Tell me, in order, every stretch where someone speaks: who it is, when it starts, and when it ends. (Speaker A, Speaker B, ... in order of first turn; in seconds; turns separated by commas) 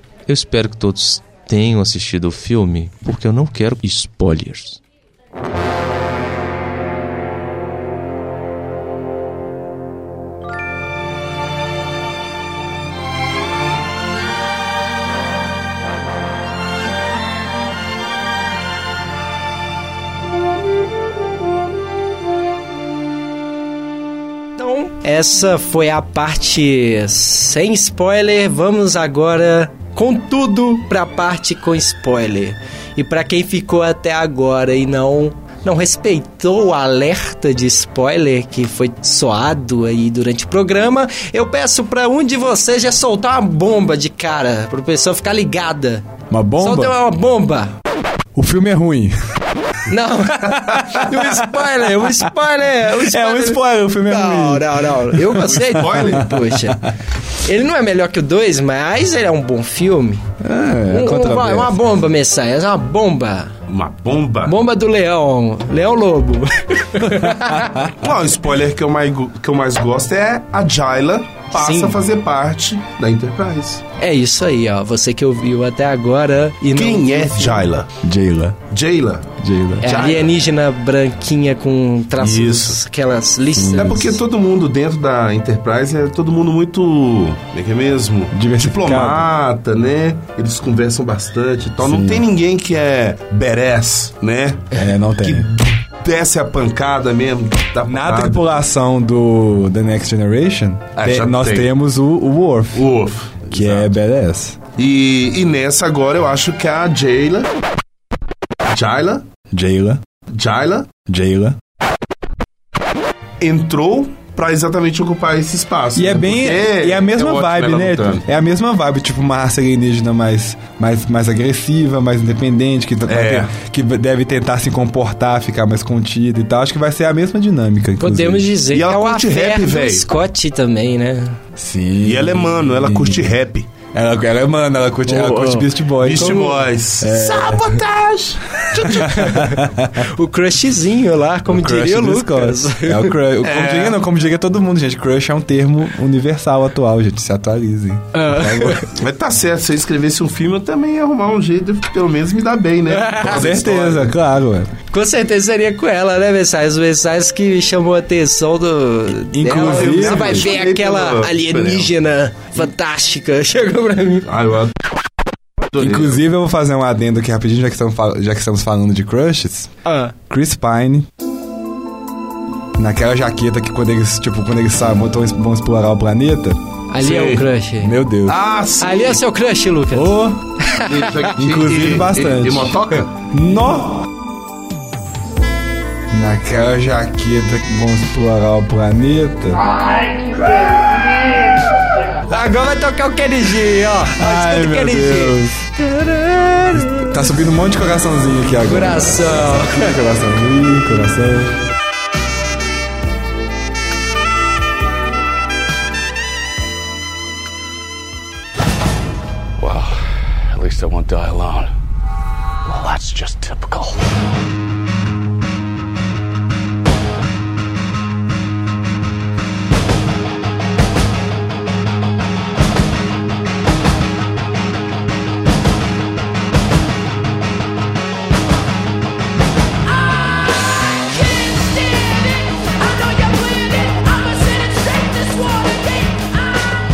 Speaker A: 0.3-4.8, Speaker B: 24.6-47.7, Speaker C: 46.3-47.0, Speaker C: 48.3-49.1, Speaker B: 49.9-60.2, Speaker C: 50.8-52.1, Speaker C: 52.9-56.1, Speaker D: 55.3-56.4, Speaker C: 60.4-61.8, Speaker B: 60.9-63.5, Speaker D: 63.7-64.5, Speaker B: 64.4-67.9, Speaker D: 67.9-73.8, Speaker B: 71.5-72.0, Speaker B: 74.0-77.7, Speaker D: 76.7-77.9, Speaker C: 78.0-78.6, Speaker D: 78.7-80.3, Speaker C: 79.4-80.0, Speaker B: 79.8-84.1, Speaker D: 82.2-82.8, Speaker C: 83.5-84.2, Speaker D: 83.8-98.5, Speaker C: 88.3-89.3, Speaker C: 91.8-92.2, Speaker C: 94.7-95.5, Speaker C: 97.8-102.9, Speaker D: 101.0-101.7, Speaker D: 102.7-103.9, Speaker C: 103.5-104.6, Speaker D: 104.8-107.5, Speaker D: 108.7-109.2, Speaker C: 109.5-110.0, Speaker D: 110.3-110.9, Speaker C: 111.0-111.6, Speaker D: 113.4-118.2, Speaker C: 115.9-128.5, Speaker D: 123.1-123.5, Speaker B: 128.0-131.4, Speaker D: 128.7-130.1, Speaker C: 131.6-133.3, Speaker D: 132.0-133.7, Speaker C: 133.9-137.8, Speaker B: 135.1-136.5, Speaker D: 136.0-139.4, Speaker C: 138.8-140.0, Speaker B: 139.0-143.2, Speaker C: 141.4-148.8, Speaker D: 143.4-144.0, Speaker B: 148.1-148.9, Speaker D: 148.9-154.1, Speaker B: 152.9-153.4, Speaker C: 153.2-154.7, Speaker B: 154.9-164.3, Speaker C: 159.3-160.5, Speaker D: 159.4-161.9, Speaker D: 164.2-164.7, Speaker D: 165.7-166.2, Speaker C: 165.7-169.7, Speaker B: 169.8-170.1, Speaker C: 170.3-171.1, Speaker C: 172.8-176.6, Speaker B: 176.9-178.0, Speaker D: 177.0-177.5, Speaker C: 177.8-178.4, Speaker D: 178.2-179.2, Speaker B: 178.8-181.3, Speaker C: 179.9-180.4, Speaker D: 180.8-183.1, Speaker C: 181.3-184.1, Speaker C: 186.1-189.7, Speaker B: 192.2-197.1, Speaker C: 194.1-195.6, Speaker C: 196.8-201.6, Speaker B: 198.7-199.9, Speaker E: 209.6-211.7, Speaker E: 212.7-214.0, Speaker B: 231.5-236.2